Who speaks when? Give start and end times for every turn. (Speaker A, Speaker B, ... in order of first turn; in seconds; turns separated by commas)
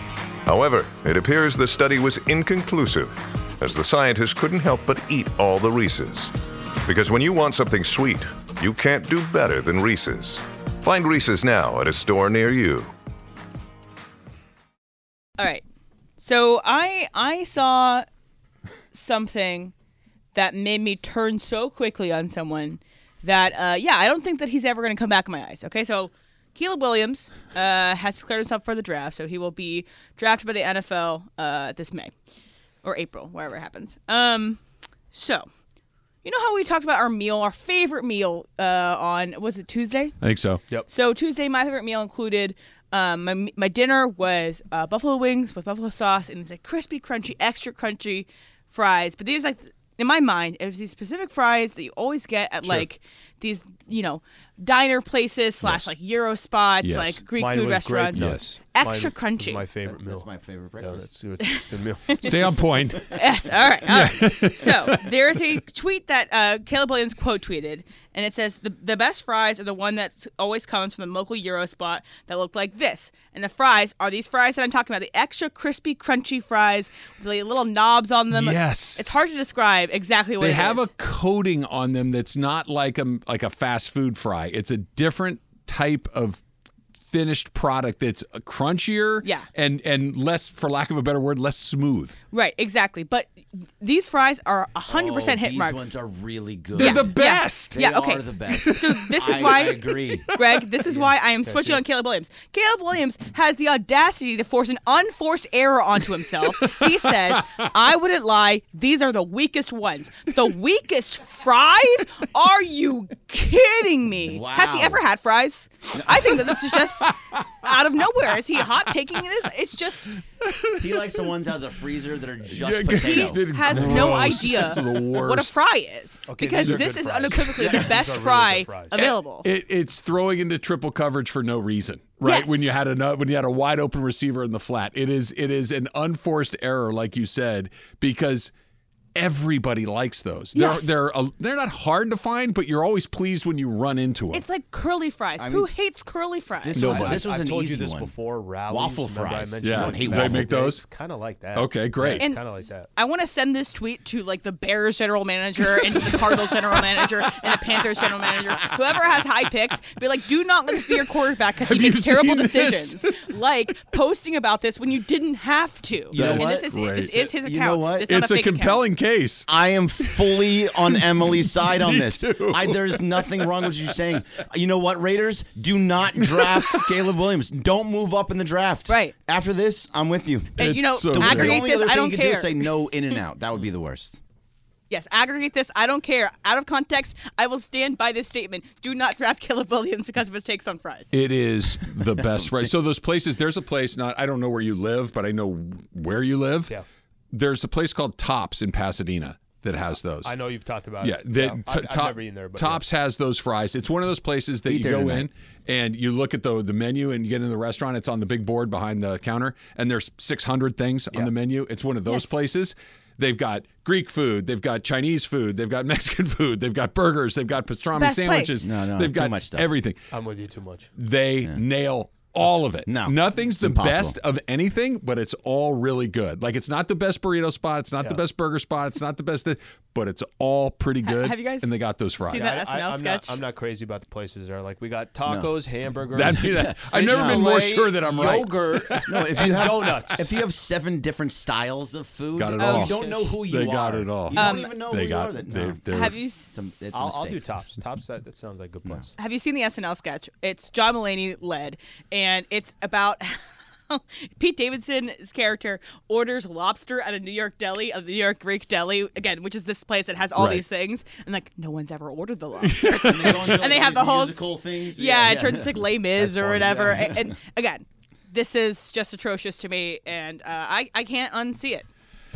Speaker A: 0.5-6.3, Speaker A: 6.8-12.9, Speaker B: 15.4-15.6, Speaker B: 16.2-18.1, Speaker B: 18.9-19.7, Speaker B: 20.3-32.1, Speaker B: 32.8-34.6, Speaker B: 35.1-35.5, Speaker B: 36.2-40.2, Speaker C: 40.2-40.6, Speaker B: 40.9-59.6, Speaker C: 55.6-55.9, Speaker C: 56.8-57.2, Speaker D: 57.4-60.3, Speaker C: 58.1-58.5, Speaker E: 59.9-61.1, Speaker D: 60.8-62.5, Speaker C: 62.2-63.2, Speaker B: 63.1-80.9, Speaker C: 63.9-65.4, Speaker C: 78.3-79.0, Speaker C: 80.4-86.4, Speaker C: 87.0-92.2, Speaker B: 89.2-89.5, Speaker B: 92.3-95.8, Speaker E: 94.9-100.3, Speaker C: 96.8-97.8, Speaker B: 96.8-120.1, Speaker C: 98.5-99.4, Speaker C: 100.3-100.6, Speaker D: 100.9-101.8, Speaker C: 106.2-107.7, Speaker E: 114.2-115.0, Speaker C: 116.5-117.7, Speaker C: 120.4-121.3, Speaker E: 120.8-124.2, Speaker C: 122.5-125.5, Speaker B: 123.0-129.5, Speaker D: 126.3-128.9, Speaker E: 127.6-128.0, Speaker C: 128.9-138.5, Speaker B: 132.2-132.7, Speaker C: 139.2-144.4, Speaker B: 140.5-141.0, Speaker B: 144.3-147.1, Speaker E: 145.4-145.7, Speaker E: 146.6-148.1, Speaker C: 146.8-147.2, Speaker D: 146.8-152.9, Speaker E: 148.7-150.5, Speaker C: 149.6-150.8, Speaker C: 151.6-152.3, Speaker B: 152.2-168.8, Speaker C: 155.8-157.6, Speaker C: 161.6-163.3, Speaker E: 166.1-168.1, Speaker C: 166.1-167.2, Speaker C: 168.1-174.0, Speaker E: 169.5-184.2, Speaker C: 176.2-177.1, Speaker B: 178.9-179.1, Speaker C: 180.6-181.7, Speaker B: 180.6-182.7, Speaker B: 184.9-191.1, Speaker C: 191.1-196.8, Speaker E: 192.1-192.7, Speaker C: 197.3-200.3, Speaker D: 200.2-202.8, Speaker C: 201.0-220.0, Speaker E: 204.7-205.3, Speaker B: 212.1-212.3, Speaker B: 217.9-218.6, Speaker E: 218.6-219.7, Speaker D: 220.1-220.9, Speaker C: 221.0-232.5, Speaker E: 222.9-224.2, Speaker B: 231.0-231.7, Speaker B: 232.2-233.4, Speaker D: 232.3-240.4, Speaker E: 235.3-235.5, Speaker C: 236.1-240.2, Speaker E: 236.2-237.5, Speaker E: 239.1-247.4, Speaker C: 242.3-246.2, Speaker B: 242.6-243.4, Speaker B: 244.3-244.8, Speaker B: 245.9-247.0, Speaker D: 246.9-249.1, Speaker B: 249.2-271.9, Speaker C: 260.4-260.6, Speaker C: 262.6-263.8, Speaker E: 263.0-267.3